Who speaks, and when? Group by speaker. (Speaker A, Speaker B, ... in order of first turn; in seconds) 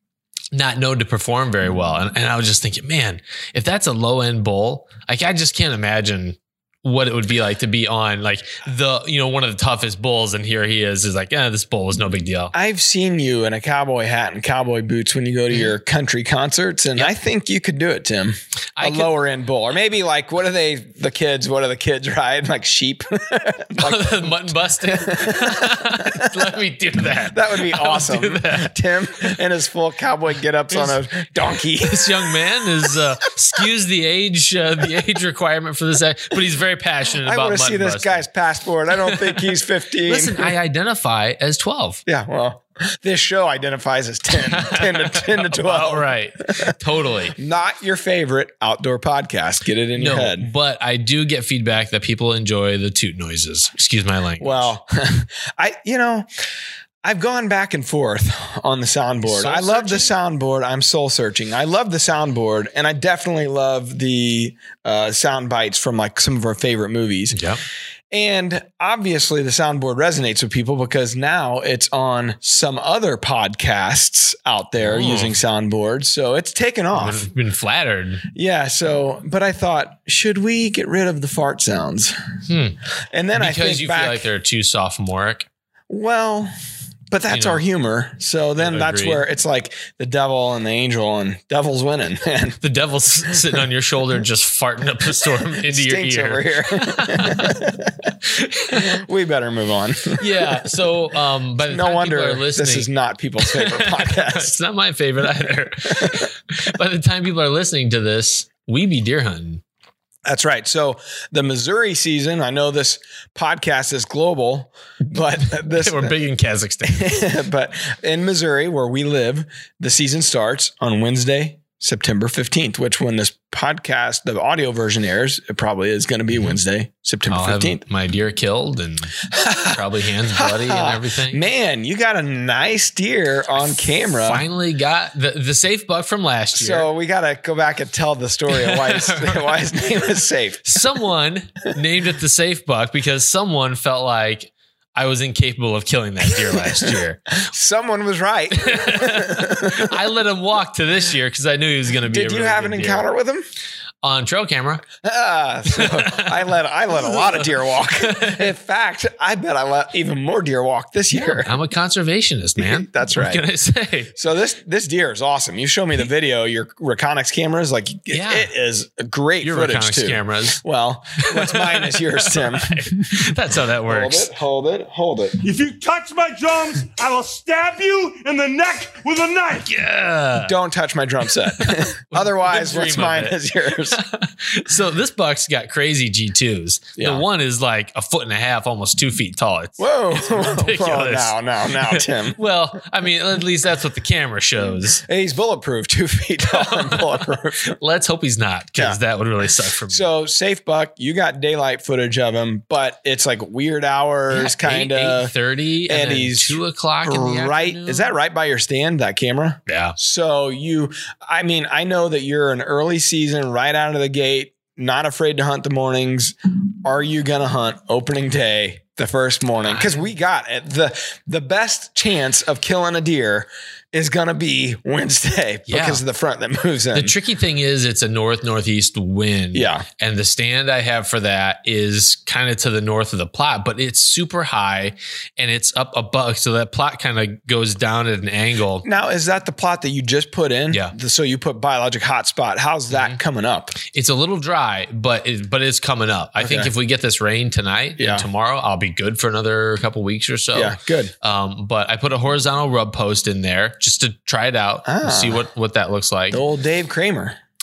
Speaker A: 0.5-12.5, 18.8-19.1, 23.8-29.3, 30.7-38.2, 39.0-42.0, 44.4-47.4, 50.0-54.7, 59.2-60.1, 67.3-67.6, 74.8-75.3, 76.9-78.2, 82.5-82.8, 83.3-85.5, 87.3-87.6, 88.6-89.2, 92.6-97.6, 98.2-99.0, 100.2-109.6, 115.5-117.2, 127.3-131.4, 133.5-136.9, 138.5-139.7, 140.6-147.2, 148.5-153.1, 154.0-154.8, 155.7-158.5, 161.1-164.1, 168.1-168.5, 169.4-170.6, 171.2-174.3, 179.6-180.5, 181.5-195.0, 196.5-200.1, 204.3-208.1, 209.7-209.9, 219.7-220.0, 225.7-226.0, 226.9-238.8, 242.9-243.2, 243.8-256.4
Speaker B: 12.5-26.4, 27.3-32.3, 37.2-40.5, 42.0-46.7, 47.4-50.5, 54.4-56.2, 57.0-67.4, 68.1-77.3, 78.3-82.2, 83.1-84.3, 85.9-86.5, 87.1-92.6, 95.6-98.1, 98.7-100.6, 101.7-104.6, 105.9-106.2, 110.2-116.1, 116.8-127.8, 129.3-134.4, 136.5-140.8, 146.2-149.9, 152.1-153.4, 155.0-161.5, 162.6-163.4, 164.2-173.3, 173.9-175.4, 180.4-184.0, 186.9-187.2, 189.8-192.4, 194.7-197.8, 199.9-205.3, 205.9-227.1, 229.5-229.8, 238.8-243.8, 246.4-246.7, 248.0-248.3, 250.5-251.1, 254.8-255.4, 256.3-257.4
Speaker C: 175.4-179.7